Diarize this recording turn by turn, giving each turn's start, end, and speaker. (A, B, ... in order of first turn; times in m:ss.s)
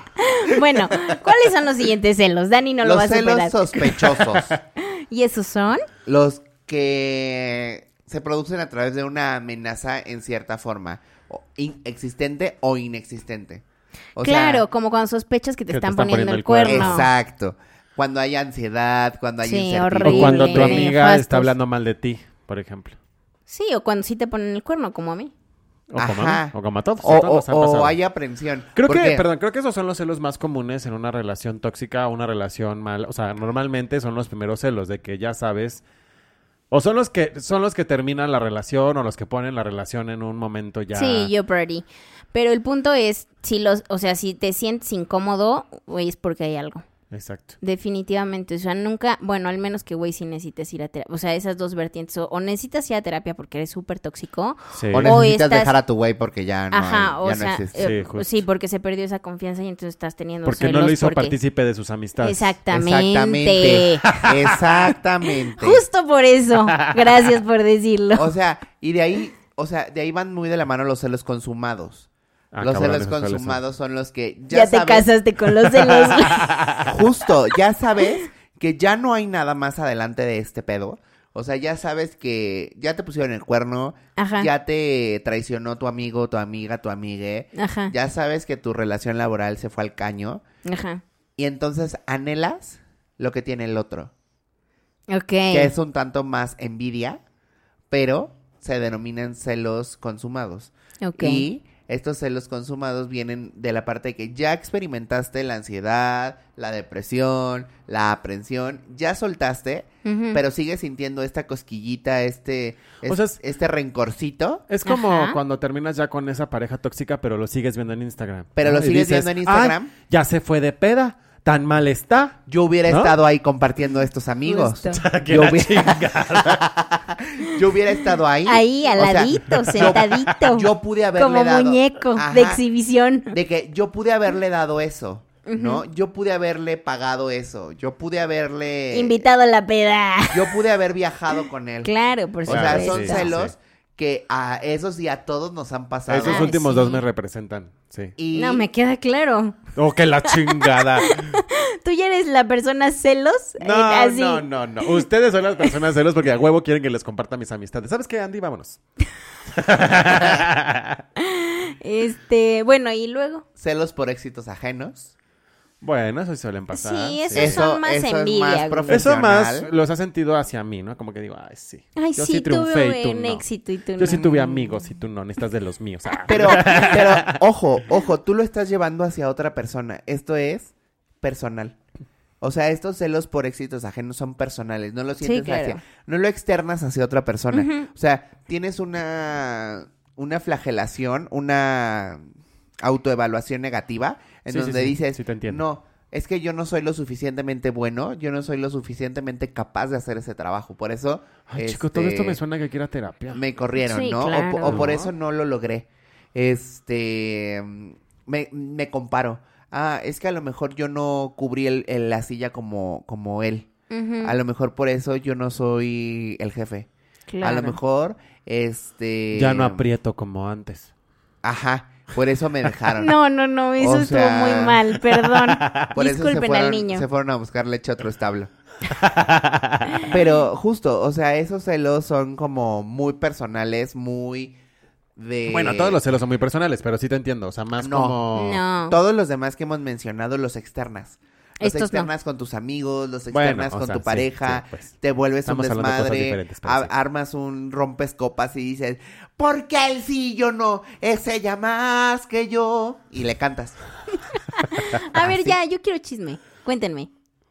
0:00.2-0:04.2 A
0:02.8-0:04.5 B
0:04.8-0:05.8 A
0:06.0-0:13.6 B
0:14.1-0:14.6 B
0:14.2-0:17.1 A
0:15.7-0:17.0 C
0:16.7-0:20.9 B
0:19.4-0:21.5 A
0:20.0-0:23.0 C
0:23.5-0:25.3 A
0:25.9-0:28.0 C
0:26.0-0:29.2 B
0:28.7-0:35.8 C
0:36.7-0:41.3 C
0:40.9-0:46.8 A
0:47.1-0:47.6 C
0:47.6-0:55.7 A
0:54.7-0:55.2 C
0:54.9-0:57.8 B
0:56.7-1:01.4 A
0:57.8-0:58.3 C
1:00.4-1:02.5 C
1:02.2-1:04.0 A
1:02.7-1:05.8 B
1:04.1-1:04.6 C
1:05.6-1:08.3 A
1:06.8-1:07.3 C
1:08.2-1:12.1 B
1:12.5-1:13.6 C
1:12.6-1:15.1 B
1:14.5-1:16.5 A
1:15.8-1:16.9 C
1:16.8-1:30.4 B
1:24.2-1:24.5 A
1:27.6-1:27.9 A
1:30.6-1:31.0 A
1:31.4-1:34.1 B
1:35.1-1:35.7 A
1:35.5-1:37.2 B
1:37.9-1:54.6 B
1:41.0-1:41.5 A
1:50.0-1:50.4 A
1:53.0-1:53.4 C
1:54.7-2:03.2 C
1:54.8-1:55.4 A
1:58.6-1:59.9 B
2:02.5-2:12.6 B
2:04.4-2:05.0 A
2:04.9-2:06.6 C
2:08.4-2:13.3 A
2:09.6-2:10.2 C
2:13.3-2:19.2 B
2:15.4-2:15.8 A
2:18.9-2:20.6 A
2:20.3-2:21.9 B
2:21.8-2:23.3 A
2:22.4-2:26.5 B
2:22.5-2:23.5 C
2:26.1-2:28.1 C
2:26.2-2:27.0 A
2:28.2-2:28.7 B
2:28.3-2:29.6 A
2:29.7-2:31.4 C
2:30.2-2:34.9 A
2:33.6-2:38.8 C
2:39.5-2:41.0 C
2:41.2-2:43.4 A
2:43.6-2:45.1 B
2:45.8-2:47.6 C
2:46.7-2:49.1 A
2:47.3-2:49.7 B
2:48.9-2:53.4 C
2:52.0-2:54.8 A
2:54.0-2:57.4 C
2:56.2-2:56.8 A
2:56.3-3:01.8 B
3:02.4-3:12.2 B
3:05.2-3:05.8 A
3:07.5-3:07.9 A
3:12.8-3:22.4 B
3:14.5-3:15.6 C
3:21.5-3:23.4 C
3:23.3-3:33.7 B
3:23.8-3:24.9 A
3:24.7-3:25.1 C
3:33.9-3:34.3 A
3:34.2-3:36.9 B
3:37.3-3:37.8 A
3:37.4-3:39.8 B
3:39.3-3:40.9 C
3:41.4-3:43.2 B
3:43.0-3:47.0 A
3:43.8-3:44.8 B
3:45.3-3:45.9 C
3:45.9-3:48.5 B
3:48.9-3:50.1 C
3:49.9-3:50.4 A
3:50.1-3:54.6 B
3:55.2-3:56.0 B
3:55.5-3:58.6 C
3:57.8-3:58.2 B
3:58.3-3:59.0 A
3:58.8-4:13.8 B
4:01.6-4:02.1 A
4:03.3-4:06.9 C
4:14.5-4:17.1 A
4:15.1-4:15.6 B